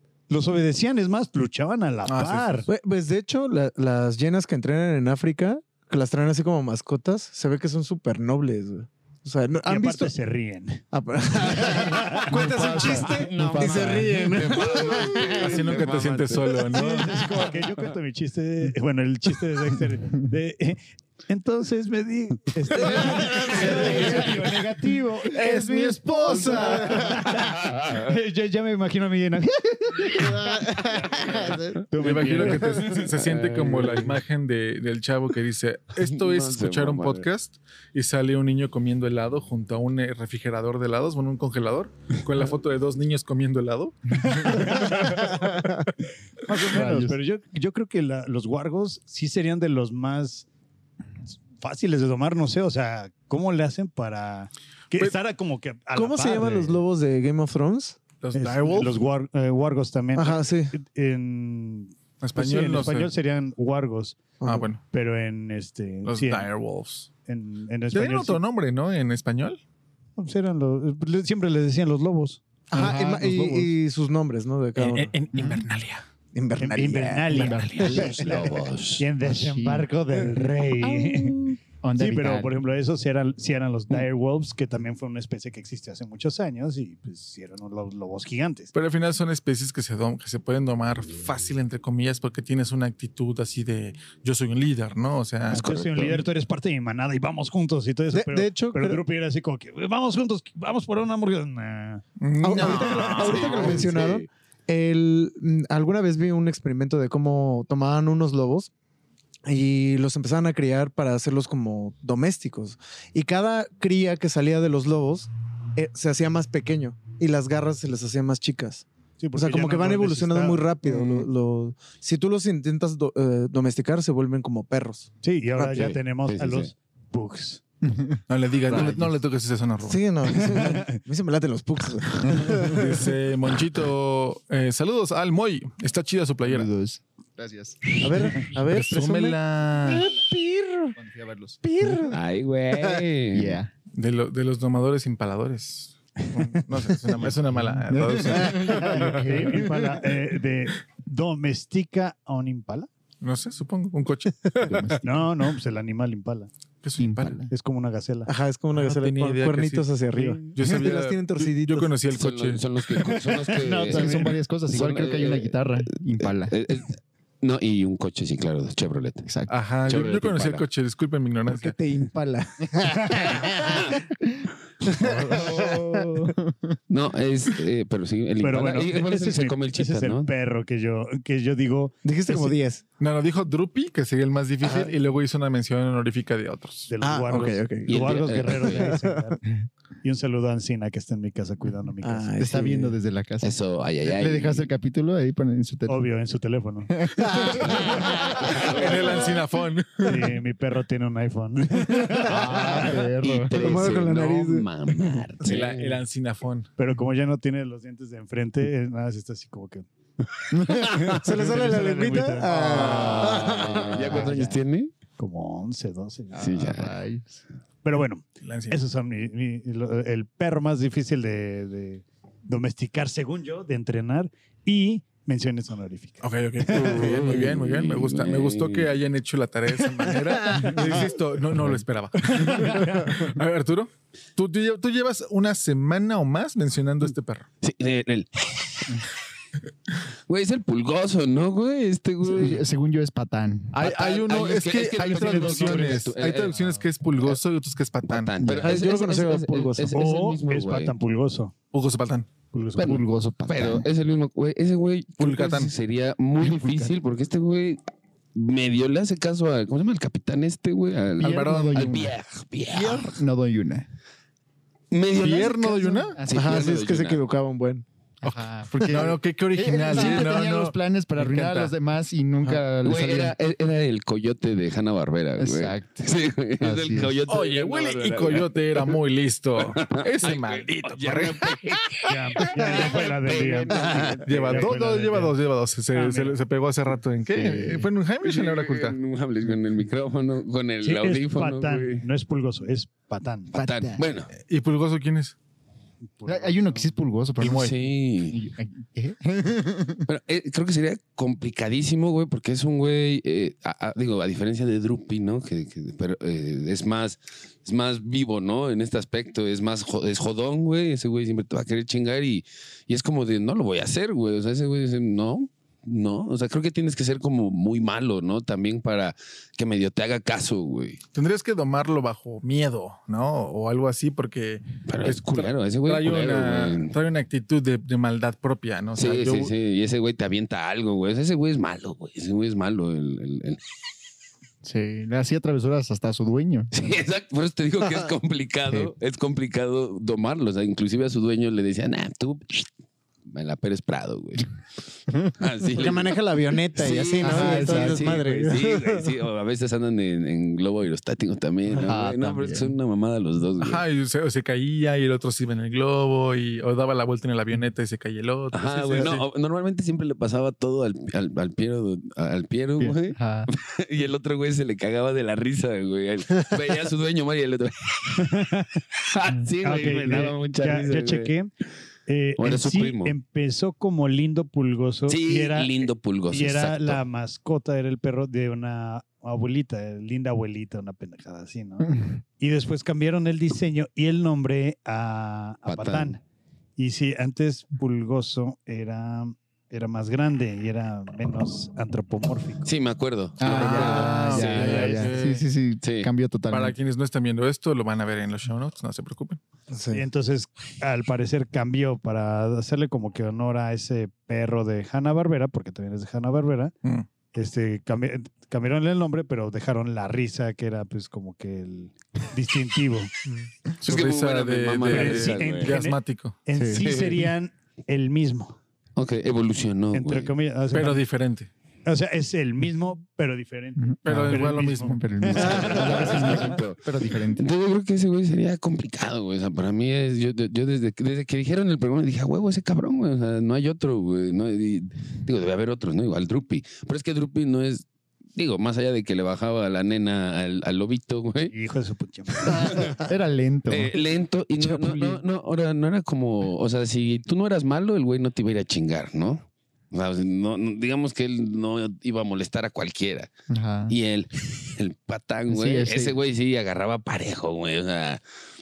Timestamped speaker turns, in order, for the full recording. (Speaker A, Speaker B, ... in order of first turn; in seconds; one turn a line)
Speaker A: 0.3-2.7
Speaker B: 2.0-2.6
Speaker C: 2.7-10.1
Speaker A: 9.6-10.8
Speaker C: 10.9-15.7
Speaker A: 11.6-13.1
Speaker D: 12.3-14.3
Speaker E: 12.7-16.7
Speaker B: 15.2-17.2
Speaker A: 16.7-30.6
Speaker C: 22.8-24.2
Speaker B: 23.5-24.2
Speaker B: 25.3-27.1
Speaker C: 26.6-27.0
Speaker C: 30.1-31.8
Speaker A: 31.8-33.1
Speaker B: 32.0-45.4
Speaker E: 33.0-34.2
Speaker E: 36.0-37.3
Speaker A: 44.3-45.4
Speaker A: 46.5-50.5
Speaker D: 46.6-47.2
Speaker A: 51.5-56.8
Speaker C: 55.9-58.0
Speaker B: 58.2-59.0
Speaker A: 58.3-66.5
Speaker C: 60.1-60.7
Speaker B: 62.2-63.1
Speaker C: 64.4-64.7
Speaker B: 64.4-64.8
Speaker B: 66.0-67.1
Speaker A: 67.2-68.4
Speaker B: 67.9-69.6
Speaker A: 70.2-72.4
Speaker C: 72.7-75.1
Speaker D: 72.7-73.7
Speaker B: 74.8-76.0
Speaker D: 75.3-75.6
Speaker C: 76.3-78.4
Speaker A: 76.6-88.7
Speaker D: 77.3-78.2
Speaker B: 77.5-78.1
Speaker E: 77.8-79.0
Speaker D: 79.2-79.9
Speaker D: 80.8-82.5
Speaker B: 88.7-95.7
Speaker A: 95.5-102.0
Speaker E: 95.5-96.2
Speaker C: 98.1-99.0
Speaker B: 102.2-103.7
Speaker C: 102.4-108.7
Speaker E: 102.6-104.3
Speaker A: 103.1-103.8
Speaker C: 109.5-125.9
Speaker A: 119.2-120.7
Speaker A: 125.2-127.6
Speaker E: 125.7-126.7
Speaker D: 127.8-129.1
Speaker B: 128.3-130.0
Speaker C: 129.8-133.1
Speaker A: 130.6-131.0
Speaker B: 132.7-136.7
Speaker D: 136.4-137.9
Speaker C: 138.0-140.9
Speaker B: 138.7-140.1
Speaker D: 140.9-142.0
Speaker C: 141.6-142.2
Speaker E: 142.1-143.6
Speaker C: 142.8-143.0
Speaker D: 143.3-143.7
Speaker B: 143.9-149.4
Speaker D: 147.5-150.0
Speaker A: 148.7-152.9
Speaker B: 153.2-155.0
Speaker D: 154.7-155.1
Speaker A: 155.0-156.5
Speaker B: 156.8-157.4
Speaker D: 157.0-157.5
Speaker A: 157.5-158.3
Speaker C: 158.3-161.9
Speaker B: 158.7-162.6
Speaker E: 162.1-169.3
Speaker A: 163.3-164.3
Speaker D: 163.8-166.6
Speaker D: 169.2-169.5
Speaker B: 169.5-171.8
Speaker E: 169.8-170.6
Speaker C: 171.5-174.0
Speaker D: 174.2-176.8
Speaker C: 174.8-176.3
Speaker E: 176.9-180.3
Speaker A: 178.4-182.6
Speaker C: 182.0-182.8
Speaker B: 183.0-187.5
Speaker C: 184.6-184.9
Speaker A: 186.9-189.4
Speaker C: 187.0-189.3
Speaker E: 187.9-188.9
Speaker A: 190.0-192.3
Speaker C: 192.0-192.9
Speaker D: 192.4-196.0
Speaker E: 193.4-194.7
Speaker A: 195.9-197.0
Speaker D: 197.0-198.1
Speaker C: 197.2-199.0
Speaker E: 197.8-198.8
Speaker B: 198.5-200.3
Speaker A: 200.0-202.7
Speaker C: 202.1-204.7
Speaker D: 202.2-203.5
Speaker E: 202.6-206.0
Speaker B: 205.4-206.7
Speaker A: 206.8-209.8
Speaker D: 210.6-210.9
Speaker A: 210.8-213.2
Speaker C: 211.1-214.3
Speaker E: 212.7-214.9
Speaker B: 212.7-213.1
Speaker D: 212.8-214.3
Speaker A: 214.1-214.6
Speaker A: 215.2-216.6
Speaker D: 216.3-217.3
Speaker E: 216.4-216.9
Speaker A: 217.8-227.0
Speaker B: 218.4-218.8
Speaker B: 226.2-237.5
Speaker E: 226.7-228.9
Speaker D: 230.6-230.9
Speaker A: 232.2-233.1
Speaker E: 237.6-238.9
Speaker E: 240.3-242.6
Speaker D: 242.2-243.8
Speaker B: 243.7-248.3
Speaker E: 243.7-246.6
Speaker A: 245.1-246.0
Speaker E: 248.1-250.9
Speaker D: 248.4-248.7
Speaker C: 248.6-249.9
Speaker A: 249.9-251.5
Speaker B: 251.7-252.3
Speaker A: 252.5-253.0
Speaker E: 252.8-257.8
Speaker D: 252.8-253.9
Speaker B: 255.2-255.7
Speaker D: 256.6-256.9
Speaker E: 258.3-263.2
Speaker D: 261.2-262.1
Speaker B: 261.2-262.1
Speaker D: 262.7-263.9
Speaker E: 264.9-267.2
Speaker B: 265.2-266.2
Speaker D: 265.7-266.6
Speaker C: 266.3-267.8
Speaker D: 268.2-273.4
Speaker B: 268.2-271.7
Speaker E: 269.9-270.2
Speaker E: 272.8-278.9
Speaker D: 275.4-276.1
Speaker D: 276.6-277.2
Speaker B: 277.3-281.6
Speaker E: 279.8-284.7
Speaker A: 282.0-285.4
Speaker B: 284.2-289.0
Speaker A: 285.9-286.4
Speaker D: 287.3-287.9
Speaker E: 288.2-292.0
Speaker A: 290.8-293.5
Speaker E: 293.5-294.3
Speaker D: 293.5-294.0
Speaker B: 294.4-295.3
Speaker A: 296.1-296.9
Speaker D: 296.2-300.1
Speaker B: 297.4-297.7
Speaker E: 297.4-298.4
Speaker E: 300.1-321.0
Speaker B: 321.1-329.5
Speaker E: 324.9-326.9
Speaker E: 329.0-333.6
Speaker D: 334.6-336.7
Speaker E: 336.7-342.7
Speaker E: 343.3-344.5
Speaker E: 345.3-346.2
Speaker C: 345.7-349.1
Speaker E: 346.7-353.8
Speaker D: 347.2-348.3
Speaker D: 351.8-352.7
Speaker B: 353.6-359.2
Speaker E: 358.5-371.3
Speaker D: 362.8-363.5
Speaker A: 368.2-368.8
Speaker A: 369.6-371.5
Speaker A: 372.1-386.2
Speaker E: 372.4-373.1
Speaker E: 375.1-377.0
Speaker E: 385.6-386.1
Speaker A: 386.8-392.7
Speaker E: 392.6-394.9
Speaker D: 393.4-396.8
Speaker B: 393.4-395.4
Speaker A: 394.5-395.1
Speaker E: 395.8-396.1
Speaker B: 396.5-399.4
Speaker C: 399.7-400.0
Speaker A: 399.9-406.7
Speaker A: 407.3-413.1
Speaker B: 413.8-416.4
Speaker E: 413.8-415.8
Speaker A: 414.9-418.6
Speaker D: 416.6-416.9
Speaker E: 416.8-417.2
Speaker E: 419.0-420.3
Speaker A: 419.9-421.0
Speaker B: 420.7-421.5
Speaker A: 421.9-426.4
Speaker D: 423.8-427.5
Speaker B: 424.1-425.0
Speaker E: 425.4-426.8
Speaker C: 425.5-426.1
Speaker E: 427.3-441.5
Speaker A: 441.5-443.0
Speaker E: 442.4-442.9
Speaker D: 442.6-443.9
Speaker E: 443.7-453.3
Speaker D: 453.5-453.9
Speaker E: 453.9-458.2
Speaker D: 455.5-456.2